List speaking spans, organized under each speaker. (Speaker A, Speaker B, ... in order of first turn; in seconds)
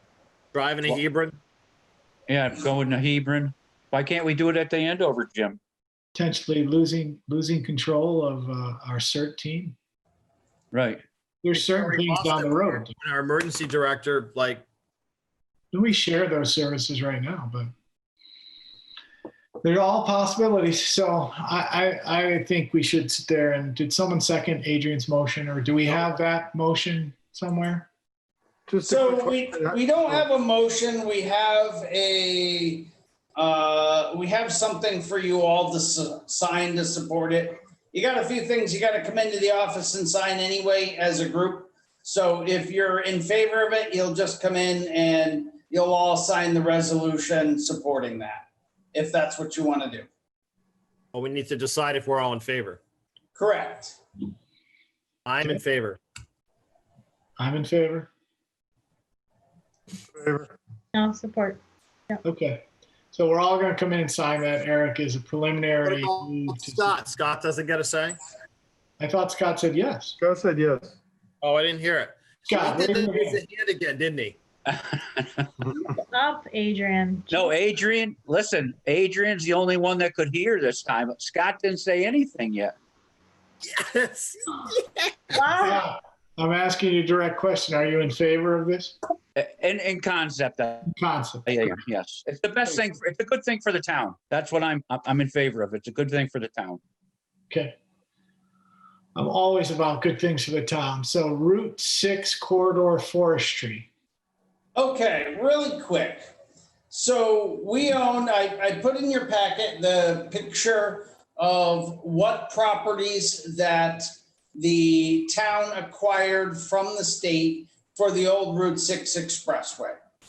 Speaker A: 0.5-1.4, 11.5-14.6, 51.1-52.8, 55.3-56.0, 65.8-68.2, 71.4-74.4, 83.6-85.4
Speaker B: 2.3-5.6, 10.7-11.0, 74.7-75.5, 77.3-82.7, 89.4-90.9, 91.5-96.8
Speaker C: 6.2-9.8, 11.4-12.9, 15.7-17.7, 19.6-27.9, 57.4-58.1, 62.2-67.0, 69.0-70.2, 72.5-73.4, 85.6-89.0, 90.8-91.6, 97.5-97.8, 99.2-103.9
Speaker D: 28.7-30.2, 60.1-60.5, 70.2-71.0
Speaker E: 28.9-50.1, 53.4-54.0, 104.8-106.3, 106.9-120.0
Speaker F: 60.9-62.2, 76.1-77.6, 85.3-85.8